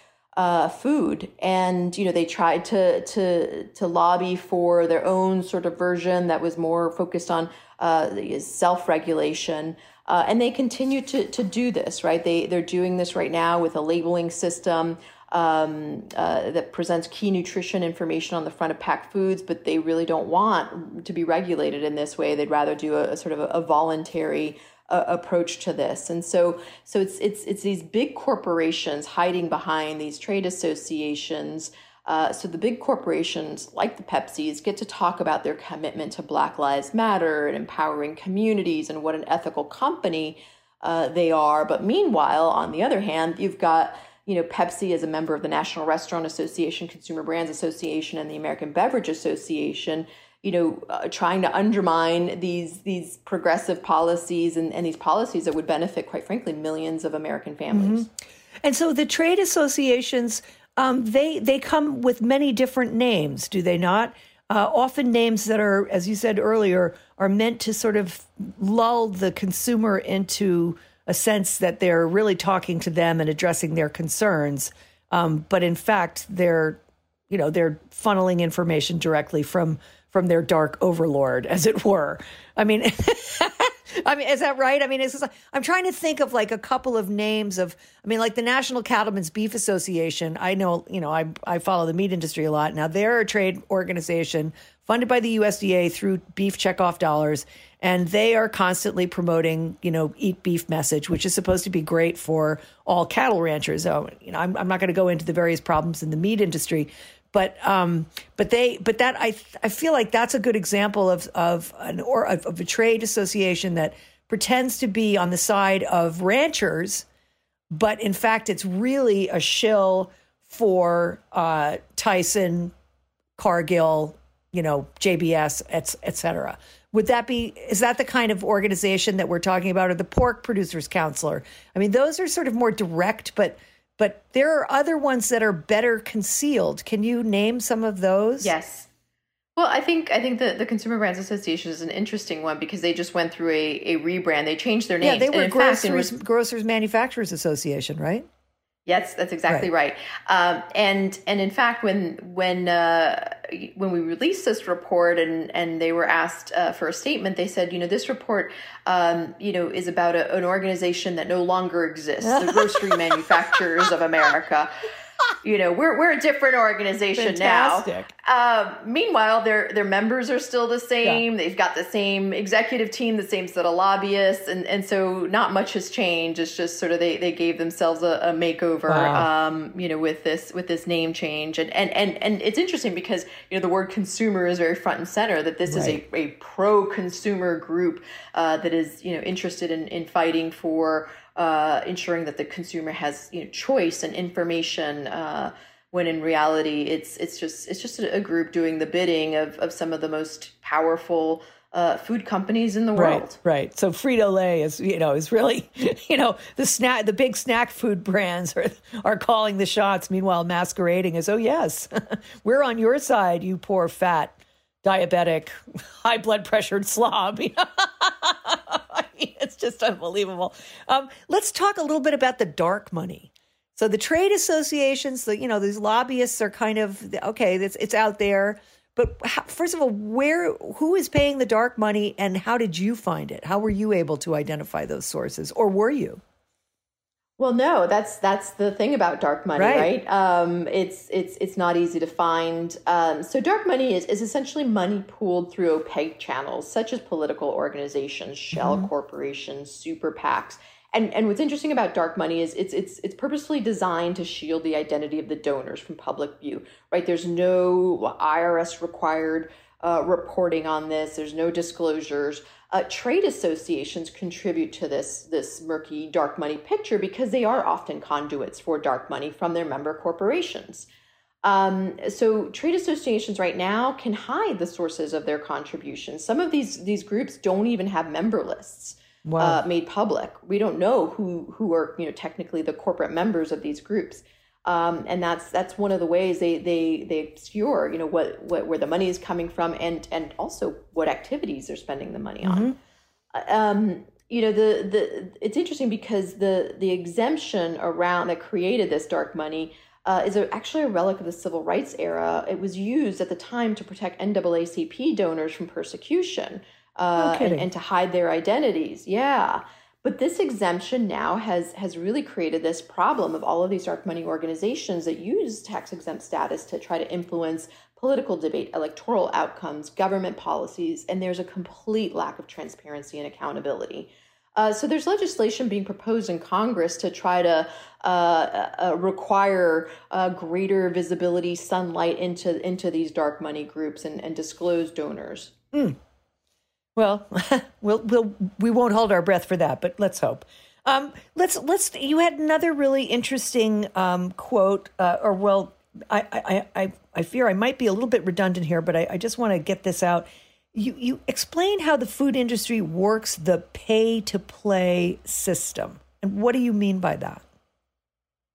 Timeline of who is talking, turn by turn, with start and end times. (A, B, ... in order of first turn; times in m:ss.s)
0:00.4-0:58.1 A
0:57.7-0:58.1 B
0:58.6-1:57.0 B
1:57.7-2:02.7 B
2:03.4-2:18.5 B
2:18.4-2:18.9 A
2:19.6-2:26.2 A
2:25.0-2:28.3 B
2:28.9-2:44.7 A
2:42.2-2:43.9 B
2:45.4-3:23.4 A
2:47.2-2:48.1 B
2:58.9-2:59.3 B
3:05.7-3:06.0 B
3:23.0-3:56.2 B
3:57.4-4:30.9 A
3:59.6-3:59.9 B
4:08.5-4:08.9 B
4:31.4-4:52.8 A
4:39.2-4:39.6 B
4:52.4-4:52.8 B
4:53.3-5:35.5 A
5:07.2-5:07.7 B
5:37.0-5:57.4 B